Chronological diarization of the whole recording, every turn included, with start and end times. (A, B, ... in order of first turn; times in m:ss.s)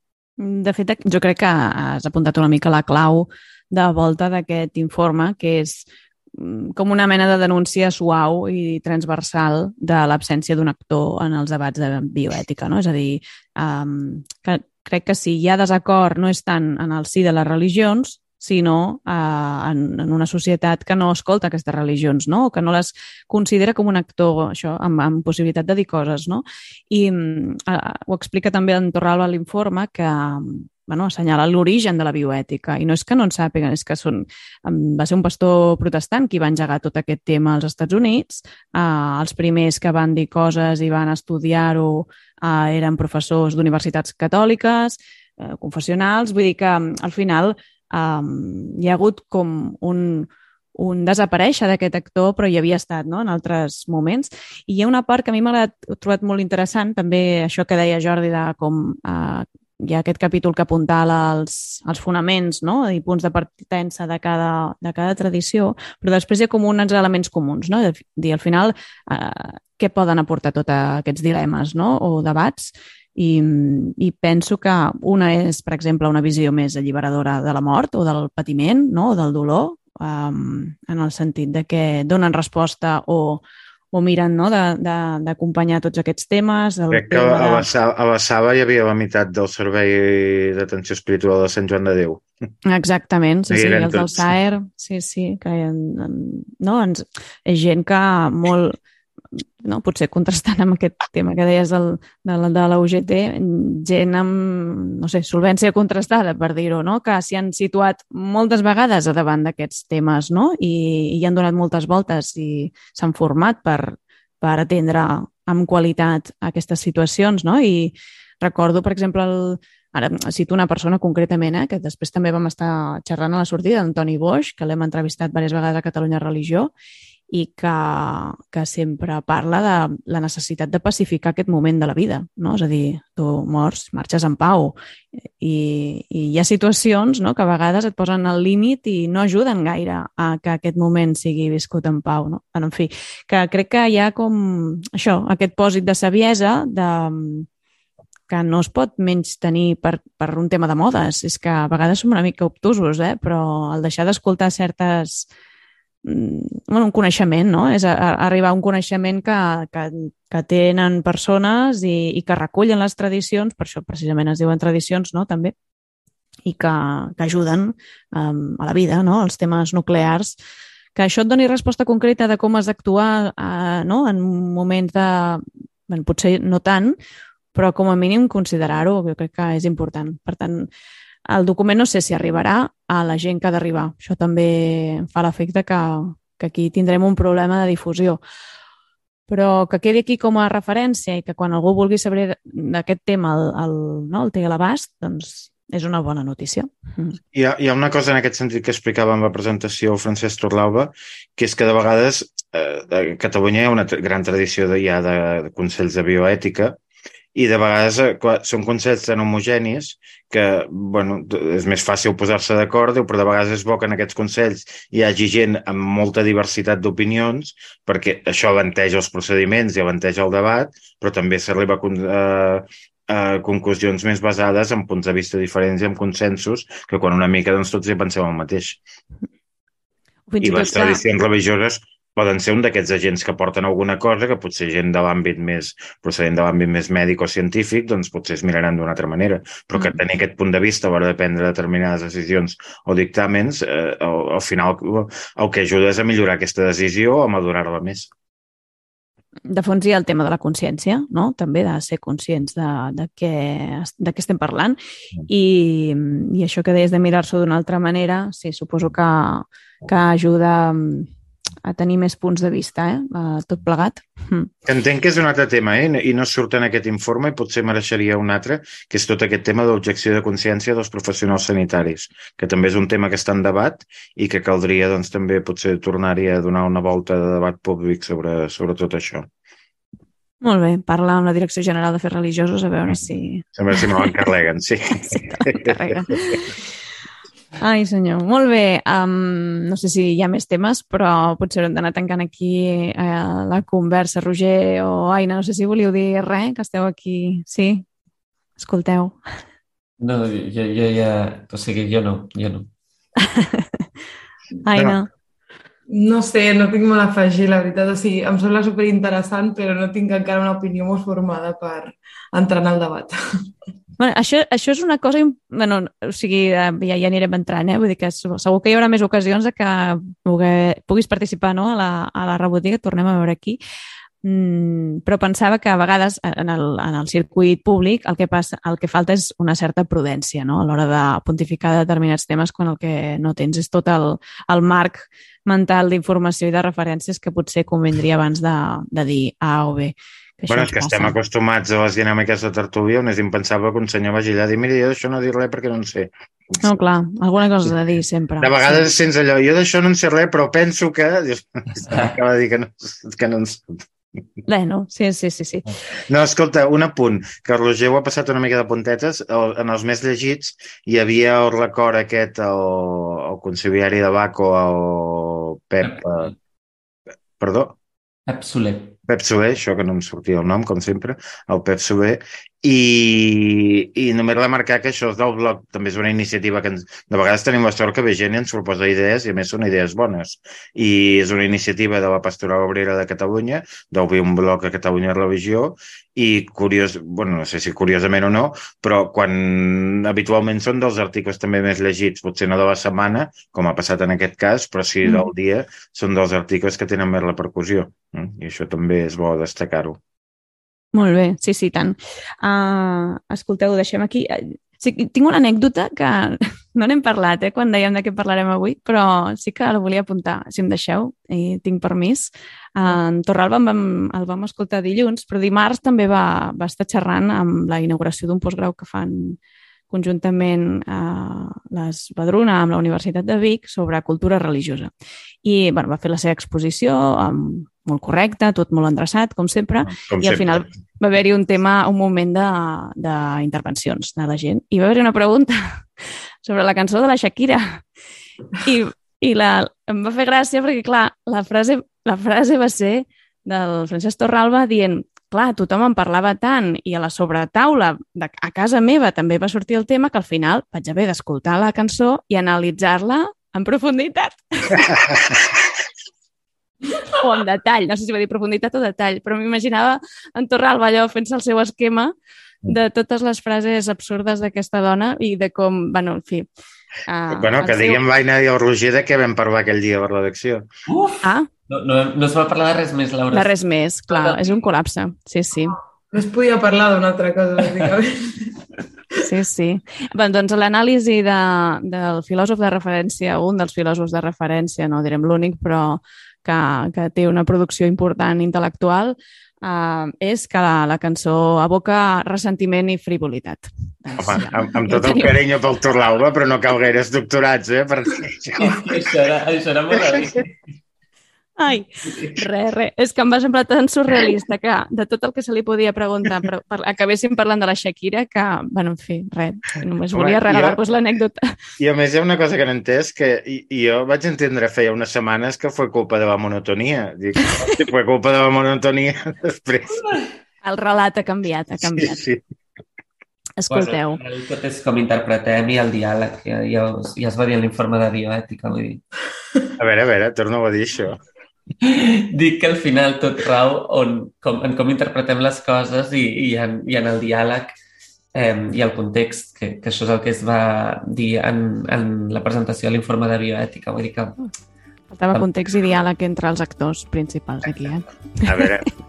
0:00.4-1:27.7 A
1:26.9-1:32.2 B
1:32.6-1:38.8 A
1:33.5-1:34.3 B
1:39.3-2:06.7 A
2:07.3-2:27.5 A
2:28.3-2:35.3 A
2:36.0-2:45.5 A
2:46.4-2:50.3 A
2:51.0-2:57.0 A
2:57.5-3:00.7 A
3:01.3-3:08.2 A
3:09.3-3:17.2 A
3:17.3-3:26.8 B
3:27.3-3:48.8 B
3:50.3-3:51.0 A
3:50.4-4:08.1 B
3:59.7-4:00.0 A
4:09.5-4:21.1 A
4:21.6-4:24.5 A
4:24.6-4:39.3 B
4:40.4-4:43.4 A
4:43.5-4:45.8 B
4:45.1-4:46.4 A
4:47.6-4:57.8 A
4:58.6-4:59.2 A
5:00.0-5:02.7 C
5:03.2-5:03.8 A
5:04.6-5:05.1 A
5:05.9-5:13.1 D
5:14.0-5:23.6 A
5:24.2-5:41.2 A
5:40.5-5:46.1 B
5:46.6-5:48.8 A
5:48.4-5:53.8 B
5:54.5-5:55.6 A
5:56.1-6:06.3 B
6:05.8-6:06.3 C
6:07.4-6:07.8 B
6:08.3-6:09.0 C
6:09.1-6:40.0 B
6:40.9-6:59.4 A
6:59.9-7:04.9 A
7:05.4-7:15.8 A
7:09.8-7:10.7 B
7:16.4-7:17.8 A
7:18.5-7:35.0 A
7:36.9-7:42.1 A
7:42.6-7:46.5 A
7:47.1-7:48.0 A
7:47.3-7:50.6 B
7:50.9-7:53.5 C
7:51.2-7:51.5 A
7:53.3-7:55.8 A
7:54.1-7:54.5 C
7:55.7-7:58.5 D
7:59.2-8:15.3 A
8:14.2-8:19.1 B
8:18.6-8:20.5 C
8:19.9-8:20.2 B
8:21.6-8:31.6 A
8:30.1-8:30.8 B
8:31.8-8:40.0 B
8:40.6-8:42.2 A
8:41.8-8:42.4 B
8:43.6-8:44.2 A
8:43.7-8:49.0 C
8:49.8-8:51.2 B
8:51.8-8:57.7 C
8:58.3-9:04.4 C
9:05.1-9:08.7 A
9:08.4-9:08.9 B